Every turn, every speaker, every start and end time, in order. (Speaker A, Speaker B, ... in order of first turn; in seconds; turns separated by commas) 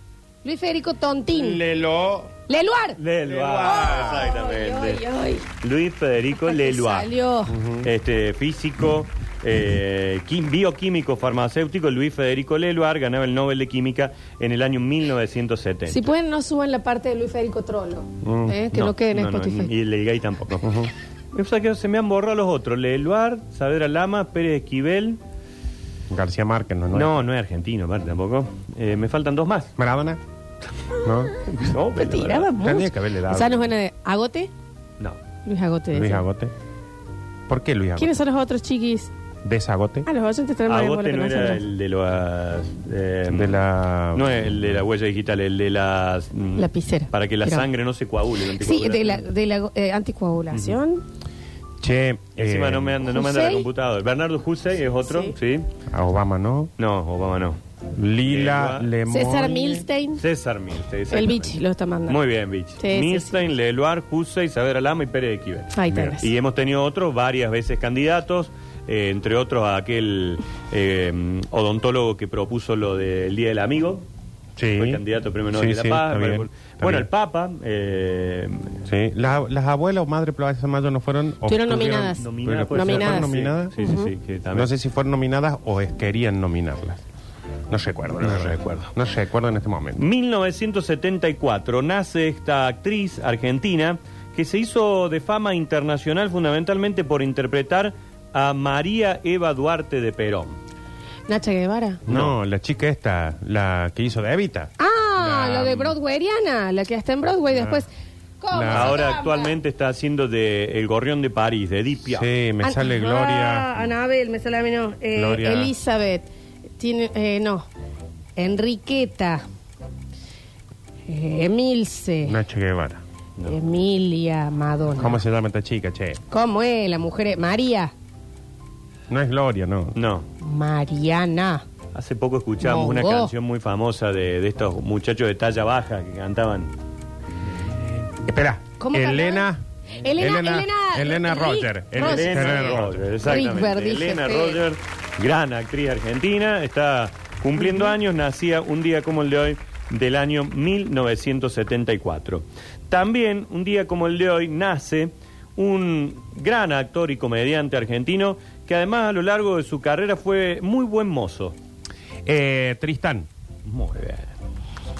Speaker A: 0.4-1.6, Speaker B: 1.3-2.3, Speaker A: 2.5-3.0, Speaker C: 3.0-5.0, Speaker B: 3.2-4.2, Speaker A: 3.6-5.5, Speaker C: 5.6-7.1, Speaker A: 6.4-7.5, Speaker B: 7.5-7.9, Speaker C: 7.8-16.0, Speaker A: 15.9-19.7, Speaker B: 18.2-18.6, Speaker C: 18.7-20.7, Speaker B: 20.6-20.9, Speaker C: 21.3-25.2, Speaker B: 26.1-27.2, Speaker C: 26.9-29.7, Speaker B: 29.8-30.2, Speaker B: 31.0-31.3, Speaker C: 31.5-32.5, Speaker A: 31.9-34.5, Speaker B: 32.6-33.7, Speaker A: 35.4-36.2, Speaker B: 35.9-36.5, Speaker B: 37.5-38.2, Speaker A: 38.0-39.1, Speaker B: 39.4-40.1, Speaker A: 40.0-41.6, Speaker C: 40.7-43.6, Speaker B: 43.3-44.6, Speaker C: 44.1-49.2, Speaker A: 46.6-47.7, Speaker A: 48.6-51.0, Speaker C: 50.5-50.8, Speaker B: 51.8-53.0, Speaker C: 52.4-55.6, Speaker A: 53.1-53.6, Speaker A: 55.1-55.3, Speaker B: 55.9-56.7, Speaker C: 56.8-57.6, Speaker B: 57.9-59.9, Speaker C: 58.2-58.9, Speaker A: 59.1-60.2, Speaker C: 60.2-74.0, Speaker A: 61.1-62.2, Speaker A: 62.8-63.4, Speaker A: 65.7-66.3, Speaker B: 65.9-66.2, Speaker B: 74.6-77.1, Speaker C: 74.8-78.8, Speaker B: 78.8-83.7, Speaker A: 81.5-84.1, Speaker C: 82.2-84.7, Speaker B: 84.5-87.0, Speaker B: 87.7-90.0, Speaker C: 88.2-88.8, Speaker C: 90.0-100.6, Speaker A: 101.3-102.0, Speaker B: 102.1-105.9, Speaker C: 102.1-102.3, Speaker A: 104.8-107.9, Speaker B: 107.5-107.8, Speaker A: 108.4-109.5, Speaker B: 108.5-109.0, Speaker C: 108.7-112.2, Speaker B: 112.1-113.7, Speaker A: 112.6-116.3, Speaker B: 115.1-115.7, Speaker A: 116.8-117.7, Speaker A: 118.4-119.4, Speaker A: 121.1-122.4, Speaker B: 122.2-123.0, Speaker A: 123.5-125.2, Speaker B: 125.0-126.2, Speaker A: 126.3-127.9, Speaker B: 129.1-129.9, Speaker C: 129.9-130.3, Speaker A: 130.4-131.6, Speaker C: 131.9-136.7, Speaker A: 132.6-133.3, Speaker B: 138.2-139.6, Speaker A: 138.8-144.6, Speaker B: 140.2-143.2, Speaker C: 141.9-161.6, Speaker A: 147.6-147.9, Speaker B: 162.2-163.3, Speaker C: 163.7-164.3